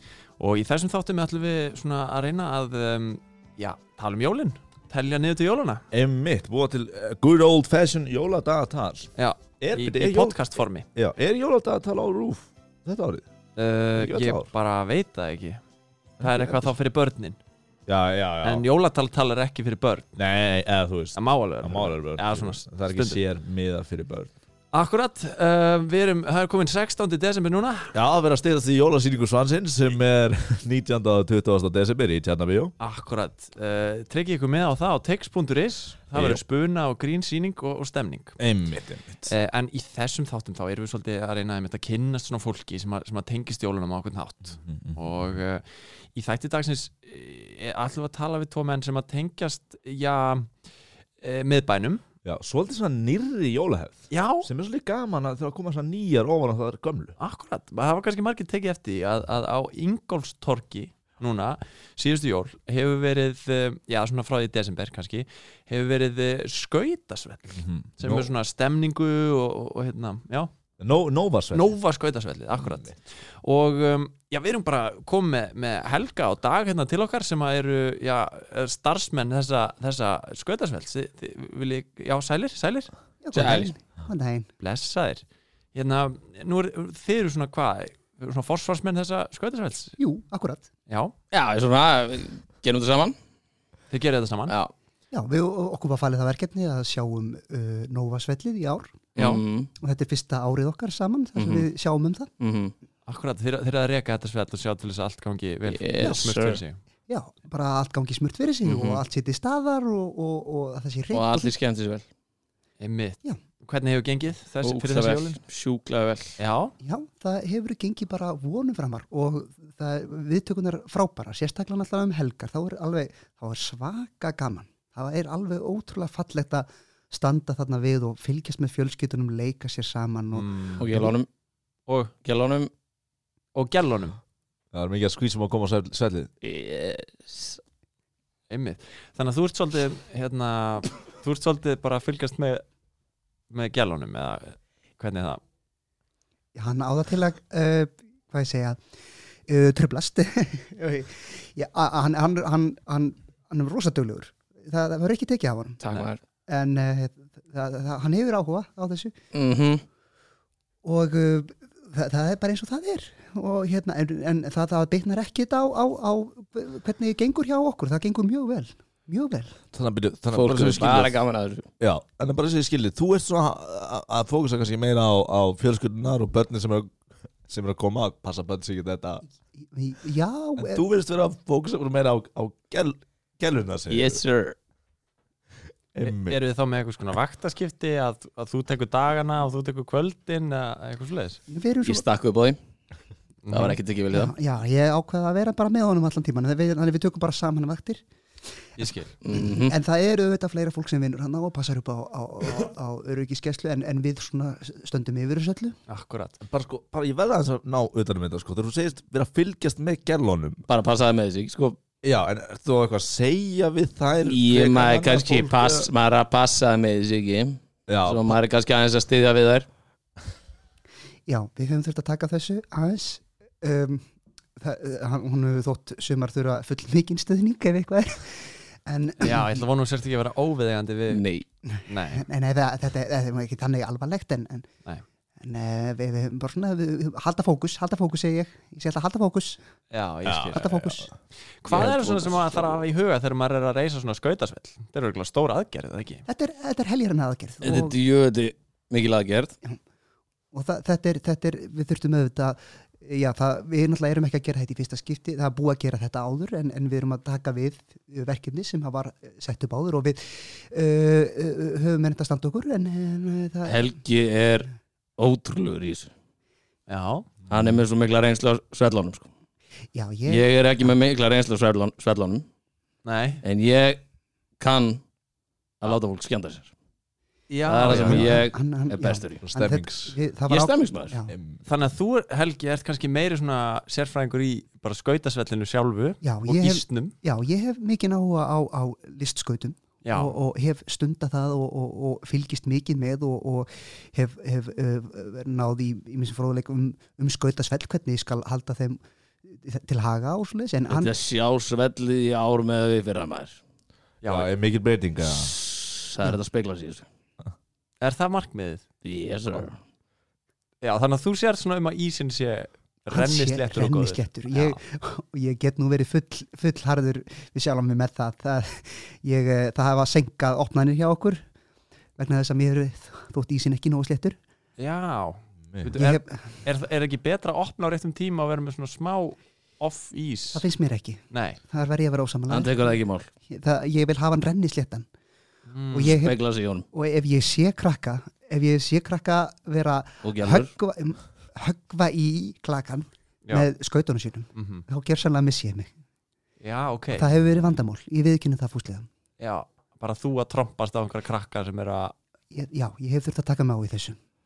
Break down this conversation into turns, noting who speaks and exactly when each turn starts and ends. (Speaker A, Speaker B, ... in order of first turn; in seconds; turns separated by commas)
Speaker A: 0.4-5.8, Speaker B: 5.9-10.4, Speaker A: 9.2-10.8, Speaker B: 10.9-13.2, Speaker A: 13.6-15.6, Speaker B: 13.9-14.5, Speaker B: 16.2-16.7, Speaker A: 16.2-17.4, Speaker B: 17.9-18.6, Speaker A: 18.4-20.1, Speaker B: 20.1-24.3, Speaker A: 21.1-23.2, Speaker A: 24.7-27.9, Speaker B: 27.9-32.7, Speaker A: 32.8-38.4, Speaker B: 36.1-36.4, Speaker B: 38.4-39.3, Speaker A: 39.3-50.5, Speaker B: 44.6-45.2, Speaker A: 51.2-52.0, Speaker B: 52.2-57.2, Speaker A: 54.1-54.5, Speaker A: 57.2-70.5, Speaker B: 67.5-68.3, Speaker B: 70.8-71.7, Speaker A: 71.5-83.7, Speaker B: 72.6-72.9, Speaker C: 83.2-84.5, Speaker D: 83.3-83.7, Speaker A: 84.6-90.0, Speaker C: 90.0-90.7, Speaker A: 90.9-91.1, Speaker D: 91.3-93.1, Speaker A: 93.9-94.5, Speaker D: 94.5-94.7, Speaker C: 95.1-99.0, Speaker D: 99.2-99.7, Speaker C: 99.8-102.3, Speaker D: 101.3-101.7, Speaker D: 102.4-102.7, Speaker A: 103.1-106.8, Speaker D: 105.7-106.6, Speaker C: 106.0-106.3, Speaker C: 107.1-111.5, Speaker D: 108.6-108.9, Speaker A: 108.7-109.0, Speaker D: 111.1-112.0, Speaker A: 112.8-115.4, Speaker D: 114.6-116.4, Speaker A: 116.4-116.7, Speaker C: 116.8-131.1, Speaker A: 130.3-131.1, Speaker D: 130.8-131.3, Speaker A: 131.9-132.1, Speaker D: 132.2-132.7, Speaker A: 133.5-134.2, Speaker B: 134.7-136.3, Speaker D: 136.4-137.6, Speaker A: 138.5-142.6, Speaker A: 143.5-145.4, Speaker C: 146.6-148.8, Speaker C: 149.5-155.8, Speaker D: 155.8-156.2, Speaker C: 156.5-159.1, Speaker D: 159.3-159.8, Speaker C: 160.8-169.6, Speaker B: 169.7-171.1, Speaker D: 170.3-171.7, Speaker B: 171.8-176.9, Speaker B: 177.5-179.2, Speaker C: 179.6-180.8, Speaker B: 180.6-184.2, Speaker D: 183.9-184.6, Speaker B: 185.9-186.4, Speaker A: 186.0-191.4, Speaker C: 191.5-192.1, Speaker D: 191.8-192.6, Speaker A: 193.4-193.8, Speaker D: 193.5-194.3, Speaker C: 194.1-198.0, Speaker A: 198.8-199.1, Speaker D: 199.2-199.7, Speaker C: 199.3-205.8, Speaker A: 205.9-206.4, Speaker B: 206.4-210.6, Speaker D: 210.7-211.8, Speaker B: 212.0-215.9, Speaker D: 214.2-219.7, Speaker B: 217.9-218.3, Speaker C: 221.3-224.0, Speaker C: 224.6-229.6, Speaker A: 229.2-231.2, Speaker D: 231.1-231.4, Speaker C: 231.6-234.7, Speaker A: 231.9-232.3, Speaker C: 235.4-239.6, Speaker A: 239.9-240.7, Speaker B: 240.2-241.1, Speaker C: 240.5-241.1, Speaker A: 241.6-246.2, Speaker D: 241.7-242.8, Speaker C: 246.3-248.0, Speaker D: 247.6-249.5, Speaker C: 250.5-264.0, Speaker D: 263.6-266.1, Speaker A: 266.9-267.3, Speaker D: 267.5-269.2, Speaker C: 269.9-270.9, Speaker D: 270.3-272.4, Speaker A: 273.0-273.4, Speaker D: 273.4-274.0, Speaker D: 274.6-275.0, Speaker D: 275.8-276.7, Speaker A: 277.5-278.4, Speaker D: 277.6-279.4, Speaker B: 277.9-278.4, Speaker C: 278.0-281.3, Speaker B: 279.4-280.2, Speaker D: 280.5-281.2, Speaker B: 281.3-281.6, Speaker A: 281.6-287.1, Speaker C: 286.2-301.1, Speaker A: 290.0-290.3, Speaker D: 300.9-303.6, Speaker A: 304.2-304.5, Speaker B: 304.2-305.5, Speaker D: 305.2-307.0, Speaker A: 308.0-308.8, Speaker D: 309.0-309.8, Speaker A: 310.8-314.8, Speaker C: 313.1-321.4, Speaker C: 322.2-324.4, Speaker A: 324.8-330.6, Speaker C: 325.9-326.6, Speaker C: 330.5-335.1, Speaker A: 331.3-331.6, Speaker D: 332.5-333.3, Speaker A: 335.7-336.2, Speaker C: 335.9-336.4, Speaker D: 336.2-336.9, Speaker C: 336.9-345.9, Speaker D: 340.2-340.7, Speaker A: 344.5-344.8, Speaker A: 346.6-347.3, Speaker C: 347.1-349.1, Speaker A: 349.4-352.1, Speaker C: 352.5-354.2